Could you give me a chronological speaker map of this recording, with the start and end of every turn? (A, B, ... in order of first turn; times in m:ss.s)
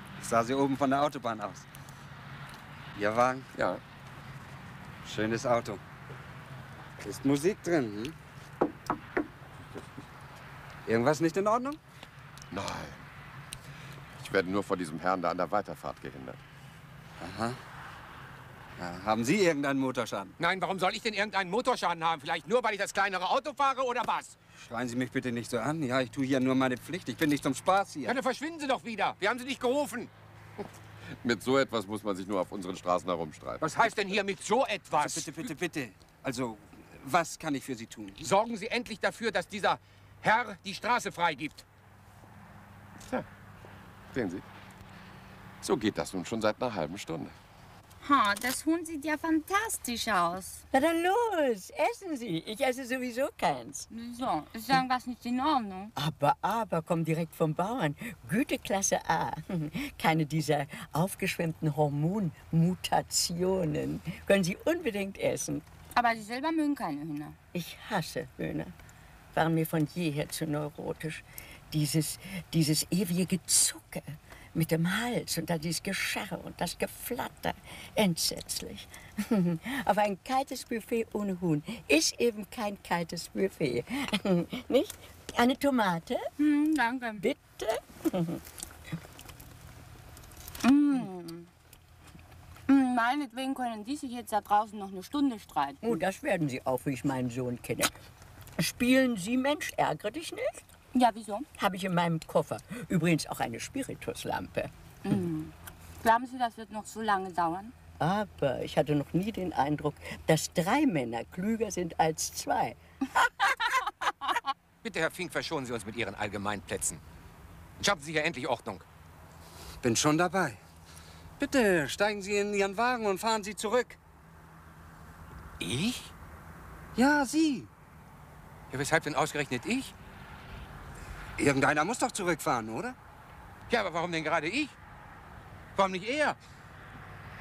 0:00.2-0:01.7 A
0:03.0-0:03.5 A
0:03.6-0:03.8 B
0:05.0-0:05.8 A
0:07.0-0:08.2 A
0:10.9-0:11.8 A
0:12.5-0:13.0 B
0:14.2-0:16.4 B
0:17.2-0:17.6 A
0:18.8-0:20.4 A
0:20.4-0:24.4 C
0:24.6-0:28.2 A
0:28.1-0:30.1 C
0:31.2-0:33.8 B
0:33.6-0:35.5 C
0:35.0-0:38.3 A
0:38.2-0:41.6 C
0:44.1-0:44.4 B
0:45.6-0:47.4 B
0:48.0-0:50.6 D
0:50.7-0:53.9 E
0:53.9-0:55.9 D
0:56.0-1:05.6 E
1:06.0-1:07.4 D
1:07.5-1:08.7 E
1:09.3-1:26.3 E
1:26.4-1:27.3 D
1:27.2-1:28.4 E
1:30.6-1:31.5 D
1:32.7-1:36.0 D
1:35.8-1:37.9 E
1:38.6-1:40.6 E
1:40.9-1:41.5 D
1:41.6-1:44.7 E
1:45.0-1:47.7 D
1:48.0-1:53.8 E
1:54.8-1:57.0 C
1:57.8-1:58.8 C
1:59.8-2:00.6 A
2:01.4-2:04.0 A
2:05.6-2:06.1 C
2:07.0-2:07.7 A
2:08.7-2:09.9 C
2:11.4-2:13.0 A
2:13.7-2:14.7 C
2:15.8-2:16.4 C